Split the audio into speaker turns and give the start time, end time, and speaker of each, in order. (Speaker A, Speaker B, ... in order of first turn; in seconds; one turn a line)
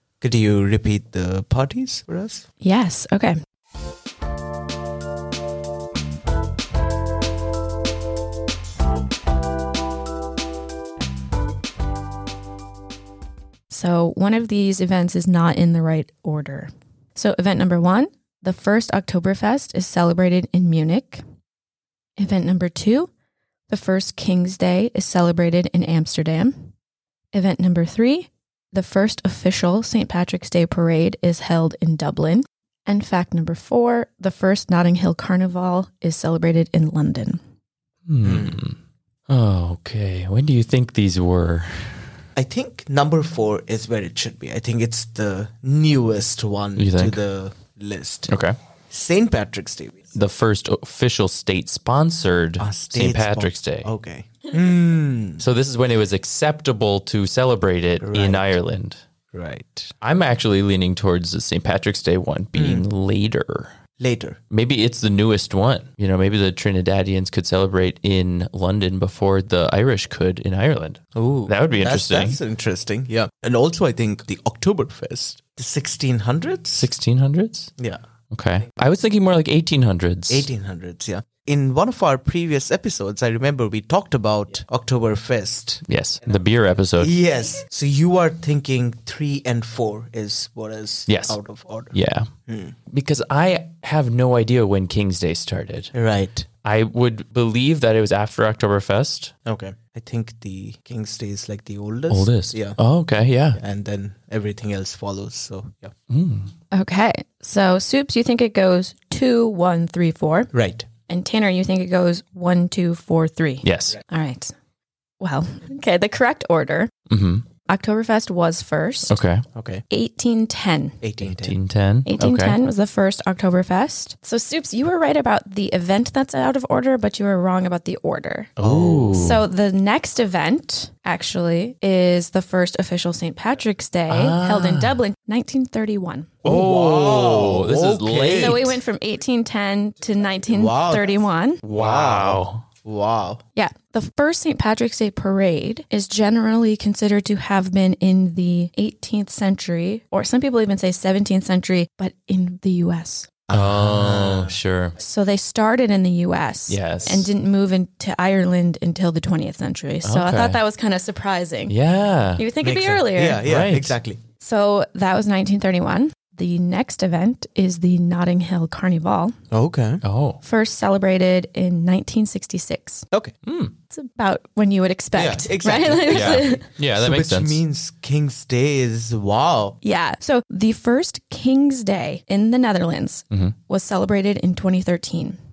Speaker A: 0.2-2.5
Speaker B: 2.6-3.4
Speaker B: 13.7-21.2
Speaker B: 22.2-23.1
Speaker B: 23.7-26.7
Speaker B: 27.3-37.4
Speaker C: 38.1-38.8
Speaker A: 38.2-38.6
Speaker C: 39.3-42.1
Speaker A: 42.4-48.3
Speaker C: 46.8-47.2
Speaker C: 48.3-48.5
Speaker A: 48.9-50.0
Speaker C: 50.1-53.9
Speaker A: 52.6-55.4
Speaker C: 55.4-59.0
Speaker A: 58.0-58.5
Speaker A: 59.3-59.9
Speaker C: 60.0-63.7
Speaker A: 62.5-62.9
Speaker A: 64.0-64.4
Speaker C: 64.5-72.4
Speaker A: 71.2-76.9
Speaker C: 76.7-77.7
Speaker C: 78.3-80.5
Speaker A: 80.3-85.8
Speaker C: 85.8-87.1
Speaker A: 87.0-91.9
Speaker C: 91.1-91.4
Speaker C: 91.9-92.3
Speaker A: 92.5-92.7
Speaker C: 92.9-95.9
Speaker A: 95.9-96.5
Speaker C: 96.6-99.3
Speaker A: 99.5-102.8
Speaker C: 102.1-103.6
Speaker A: 103.5-105.9
Speaker C: 106.1-106.5
Speaker B: 106.7-110.5
Speaker A: 110.5-110.9
Speaker B: 111.1-114.5
Speaker C: 113.6-114.0
Speaker B: 115.2-116.9
Speaker C: 117.1-117.4
Speaker B: 117.7-119.2
Speaker C: 119.1-119.4
Speaker A: 119.5-119.8
Speaker B: 119.9-121.0
Speaker A: 121.0-121.6
Speaker C: 121.2-122.6
Speaker B: 122.0-128.6
Speaker A: 128.6-129.2
Speaker C: 128.6-129.4
Speaker B: 129.1-136.4
Speaker C: 134.1-135.0
Speaker C: 136.4-138.8
Speaker A: 136.4-138.8
Speaker B: 138.3-141.6
Speaker A: 140.5-141.1
Speaker C: 141.6-142.6
Speaker A: 141.7-143.4
Speaker B: 143.6-153.3
Speaker A: 153.5-154.5
Speaker C: 153.5-154.9
Speaker B: 155.0-161.8
Speaker C: 156.7-157.3
Speaker C: 160.0-160.6
Speaker C: 161.7-162.5
Speaker B: 162.3-163.4
Speaker A: 162.6-164.2
Speaker C: 163.4-163.9
Speaker B: 164.4-169.3
Speaker A: 169.5-170.0
Speaker C: 170.0-170.4
Speaker B: 170.4-173.1
Speaker C: 173.4-173.7
Speaker B: 173.9-176.7
Speaker A: 175.1-179.8
Speaker C: 176.0-177.6
Speaker B: 179.8-185.4